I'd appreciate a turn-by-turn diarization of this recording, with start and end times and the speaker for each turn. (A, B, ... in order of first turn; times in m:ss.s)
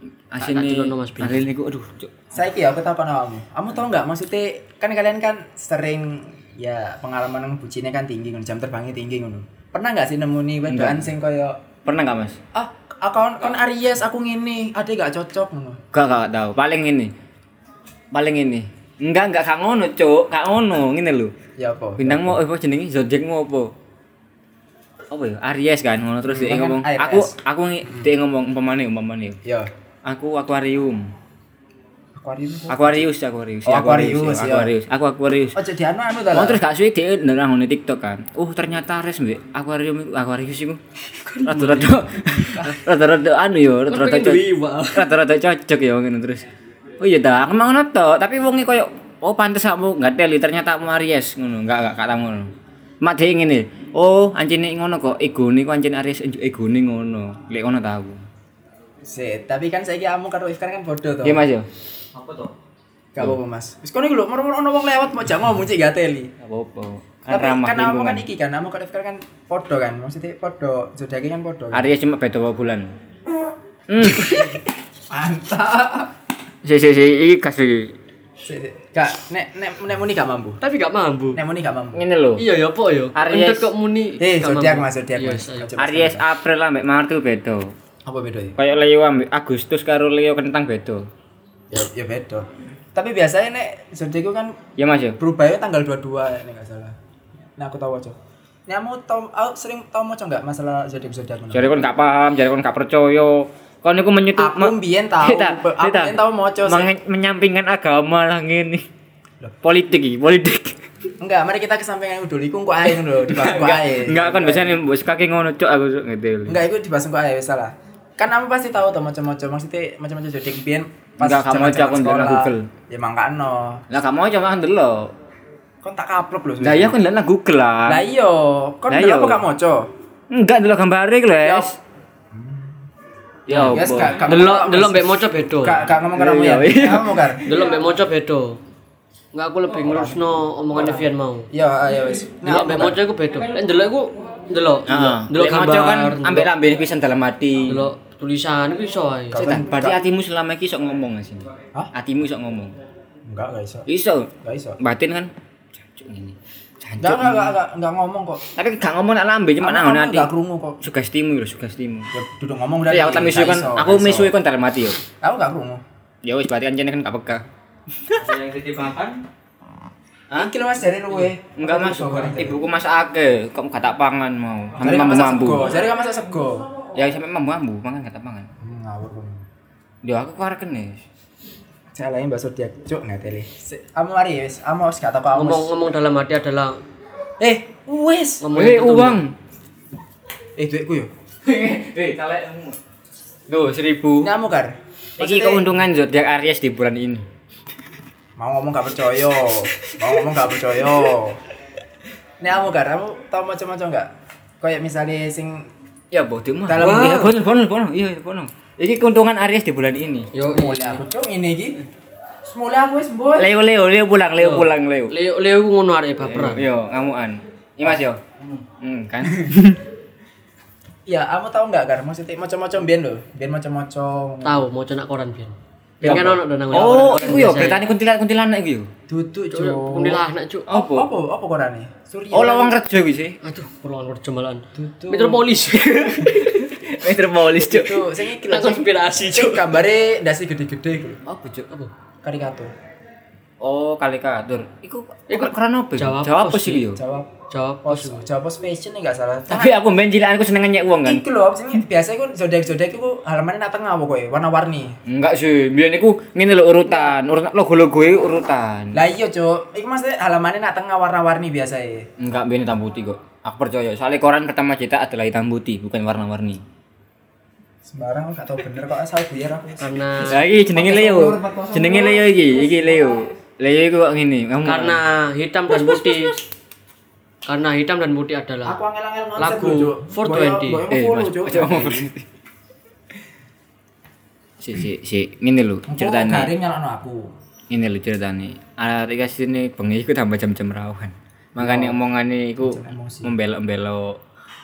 0:00.3-0:02.1 A
0:00.4-0:01.5 B
0:02.3-0:11.6 C
0:10.7-0:11.1 A
0:11.8-0:12.4 A
0:12.5-0:15.8 C
0:15.9-0:17.1 A
0:18.1-0:21.3 A
0:21.6-0:22.4 C
0:22.0-0:23.7 A
0:25.1-0:29.4 A
0:26.2-0:27.3 C
0:29.4-0:29.7 C
0:30.0-0:31.1 A
0:32.2-0:33.1 C
0:32.7-0:35.6 A
0:33.6-0:34.7 C
0:35.6-0:36.6 C
0:36.3-0:40.8 A
0:41.2-0:42.0 B
0:41.4-0:46.5 A
0:43.9-0:45.0 B
0:47.0-0:52.5 A
0:53.0-0:58.2 A
0:59.0-1:01.4 C
1:01.2-1:01.6 A
1:02.2-1:02.5 A
1:03.1-1:06.3 C
1:06.4-1:08.2 A
1:07.3-1:11.9 C
1:11.7-1:12.9 A
1:13.9-1:14.6 A
1:15.1-1:16.1 C
1:16.6-1:18.0 A
1:18.4-1:20.6 C
1:20.6-1:21.4 B
1:21.3-1:22.0 C
1:21.9-1:22.4 A
1:22.4-1:25.7 B
1:23.1-1:23.7 A
1:24.2-1:26.3 C
1:25.8-1:27.7 A
1:28.0-1:28.6 C
1:28.6-1:31.0 A
1:31.7-1:34.6 C
1:34.8-1:35.2 A
1:35.2-1:41.7 C
1:41.5-1:48.8 A
1:44.4-1:46.9 C
1:49.6-1:50.8 A
1:51.2-1:54.8 C
1:53.3-1:56.6 A
1:56.4-2:03.8 C
2:01.2-2:02.7 A
2:03.9-2:05.1 A
2:05.8-2:07.0 C
2:06.6-2:08.0 A
2:07.8-2:09.9 C
2:08.9-2:09.4 A
2:10.3-2:11.8 A
2:11.4-2:11.7 C
2:12.3-2:12.8 C
2:13.5-2:14.2 A
2:13.5-2:15.8 B
2:13.7-2:17.6 C
2:16.1-2:17.4 A
2:17.4-2:18.6 B
2:19.3-2:21.5 B
2:19.8-2:23.0 C
2:22.4-2:26.5 B
2:24.9-2:27.9 A
2:27.7-2:29.5 B
2:29.3-2:30.0 C
2:29.3-2:32.7 A
2:33.3-2:33.8 C
2:33.9-2:35.3 A
2:34.4-2:34.8 C
2:35.9-2:37.5 A
2:37.0-2:38.4 C
2:38.5-2:40.3 A
2:39.6-2:40.8 C
2:40.8-2:42.1 A
2:42.1-2:44.3 C
2:42.9-2:45.0 A
2:45.2-2:45.8 C
2:46.2-2:47.4 A
2:48.0-2:49.2 A
2:50.3-2:52.6 C
2:51.2-2:55.8 A
2:54.8-2:56.8 C
2:56.9-2:58.5 A
2:58.6-2:59.5 C
3:00.0-3:01.0 A
3:01.9-3:05.7 C
3:05.3-3:06.8 B
3:07.4-3:08.4 C
3:08.4-3:09.2 B
3:08.5-3:09.3 A
3:10.6-3:11.1 C
3:11.4-3:12.8 A
3:13.5-3:14.3 A
3:14.2-3:15.7 C
3:15.2-3:17.2 A
3:18.4-3:21.4 C
3:22.4-3:24.1 C
3:24.6-3:25.7 C
3:26.1-3:30.3 A
3:26.7-3:27.3 C
3:26.8-3:27.3 B
3:30.3-3:31.0 B
3:30.4-3:31.8 C
3:32.4-3:33.5 C
3:33.4-3:35.1 A
3:34.4-3:36.7 B
3:36.3-3:38.2 A
3:38.8-3:39.8 A
3:41.1-3:44.6 C
3:44.4-3:47.8 B
3:46.0-3:46.4 C
3:46.0-3:48.9 A
3:49.1-3:52.8 C
3:49.5-3:50.7 B
3:50.7-3:51.1 A
3:52.3-3:53.4 A
3:53.4-3:56.6 B
3:54.7-3:55.4 C
3:55.7-3:58.0 A
3:57.7-4:01.2 C
3:58.4-3:59.8 B
4:01.2-4:01.7 A
4:02.2-4:02.7 C
4:03.6-4:07.0 A
4:05.3-4:06.9 B
4:06.9-4:07.3 C
4:07.5-4:08.2 B
4:07.8-4:09.8 C
4:09.5-4:11.2 A
4:11.0-4:14.9 C
4:15.1-4:19.0 A
4:18.9-4:22.1 C
4:22.2-4:26.6 A
4:27.8-4:33.3 C
4:29.8-4:30.4 B
4:30.2-4:35.0 A
4:34.6-4:36.4 B
4:35.7-4:36.3 A
4:37.4-4:38.8 B
4:38.6-4:42.1 C
4:39.4-4:40.8 B
4:40.9-4:42.2 A
4:44.6-4:46.5 A
4:45.9-4:47.3 C
4:47.7-4:54.2 A
4:51.5-4:52.0 C
4:52.6-4:53.3 C